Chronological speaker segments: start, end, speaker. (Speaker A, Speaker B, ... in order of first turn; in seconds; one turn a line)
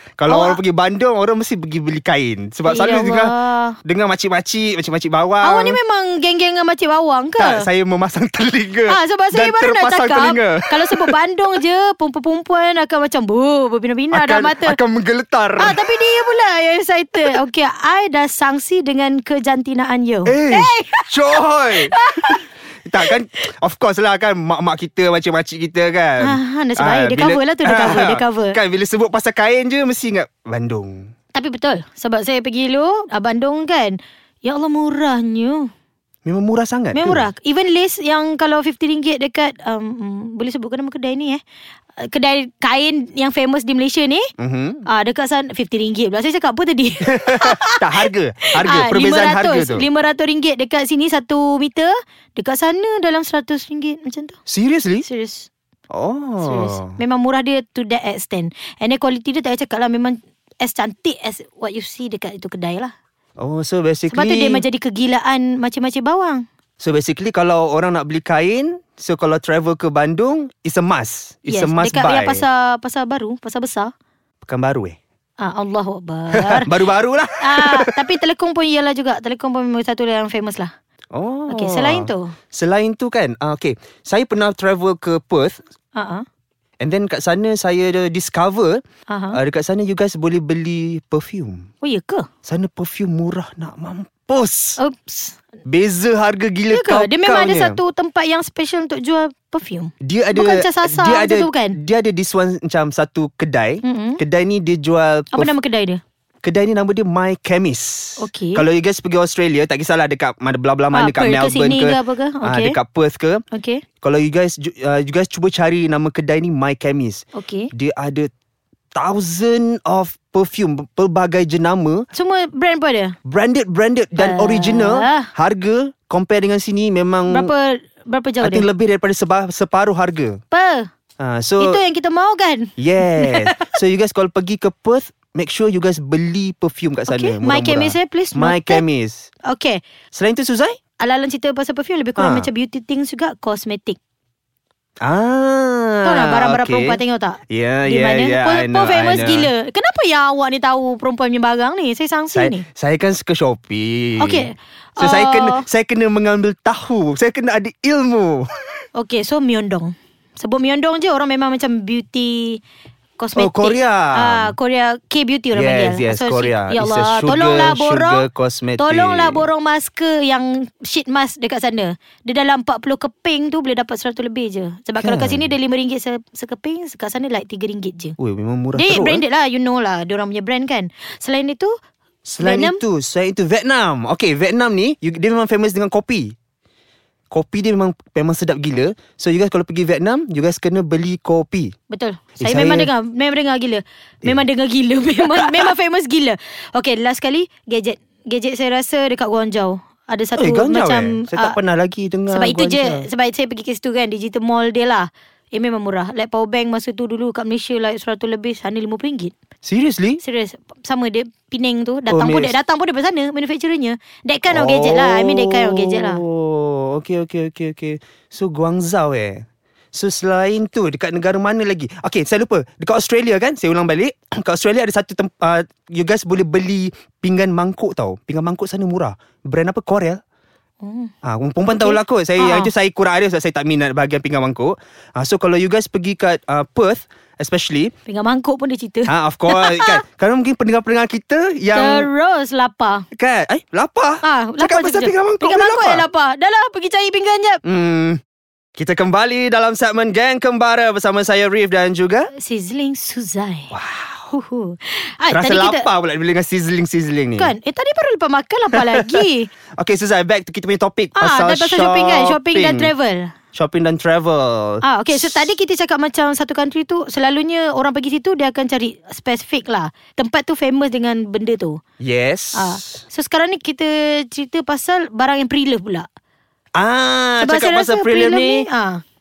Speaker A: 0.2-5.8
Speaker B: 0.3-0.6
Speaker B: 2.6-3.8
Speaker B: 5.4-7.7
Speaker A: 7.4-11.1
Speaker B: 8.9-14.8
Speaker A: 14.1-15.8
Speaker B: 15.6-22.4
Speaker A: 20.2-31.1
Speaker B: 26.2-28.6
Speaker B: 31.3-35.7
Speaker A: 36.2-37.3
Speaker B: 36.9-41.4
Speaker B: 42.0-44.3
Speaker A: 44.4-44.8
Speaker B: 44.9-54.4
Speaker A: 47.0-49.9
Speaker A: 54.5-55.1
Speaker B: 55.0-55.5
Speaker A: 55.9-57.0
Speaker B: 56.4-62.9
Speaker A: 63.4-64.6
Speaker B: 64.1-66.4
Speaker A: 66.8-72.4
Speaker B: 71.5-73.9
Speaker A: 74.5-75.0
Speaker B: 75.4-76.7
Speaker A: 76.3-77.9
Speaker B: 77.4-80.7
Speaker A: 81.1-85.6
Speaker B: 81.5-82.3
Speaker B: 85.9-86.2
Speaker A: 86.8-88.8
Speaker B: 89.1-89.4
Speaker A: 89.3-91.7
Speaker B: 91.8-92.3
Speaker A: 92.4-94.8
Speaker B: 94.8-95.4
Speaker A: 95.6-97.8
Speaker B: 96.7-101.8
Speaker A: 100.0-105.5
Speaker B: 103.8-104.2
Speaker B: 105.3-106.0
Speaker A: 106.4-113.4
Speaker B: 108.2-108.7
Speaker B: 110.9-112.8
Speaker B: 113.5-113.8
Speaker A: 114.0-118.3
Speaker B: 117.3-117.7
Speaker A: 119.0-122.0
Speaker B: 122.1-123.2
Speaker A: 123.2-127.5
Speaker B: 124.2-125.3
Speaker B: 127.3-128.7
Speaker A: 128.4-130.4
Speaker B: 130.5-130.9
Speaker A: 131.2-131.8
Speaker B: 131.6-133.7
Speaker A: 132.8-139.3
Speaker B: 137.1-138.8
Speaker B: 139.4-139.8
Speaker A: 140.1-140.8
Speaker B: 141.0-144.0
Speaker A: 142.2-142.5
Speaker A: 145.0-147.0
Speaker B: 146.0-152.6
Speaker A: 147.5-149.5
Speaker A: 152.3-158.5
Speaker B: 154.2-155.6
Speaker B: 158.9-162.6
Speaker B: 163.2-168.3
Speaker A: 163.3-164.5
Speaker A: 165.5-169.5
Speaker B: 168.8-178.2
Speaker A: 175.0-175.5
Speaker A: 178.2-179.2
Speaker B: 178.7-181.7
Speaker A: 182.2-186.3
Speaker B: 182.4-182.8
Speaker A: 187.3-191.7
Speaker B: 191.9-201.6
Speaker A: 192.4-192.9
Speaker A: 195.2-195.7
Speaker A: 200.3-203.1
Speaker B: 202.3-209.3
Speaker A: 209.6-210.2
Speaker B: 210.2-216.2
Speaker A: 212.1-212.5
Speaker A: 214.5-230.2
Speaker B: 230.8-231.1
Speaker A: 231.2-237.9
Speaker B: 231.7-232.7
Speaker B: 238.1-240.0
Speaker A: 239.1-242.1
Speaker B: 241.7-243.1
Speaker A: 243.1-246.1
Speaker B: 244.2-247.6
Speaker A: 247.6-248.2
Speaker A: 248.8-252.3
Speaker B: 252.3-253.7
Speaker A: 253.7-254.3
Speaker B: 254.3-255.9
Speaker A: 255.2-257.5
Speaker B: 257.4-259.5
Speaker A: 258.7-259.2
Speaker A: 259.8-262.9
Speaker B: 261.1-263.3
Speaker A: 263.5-265.5
Speaker B: 264.8-271.8
Speaker A: 272.0-273.0
Speaker B: 272.5-276.1
Speaker A: 276.8-278.7
Speaker B: 277.4-279.0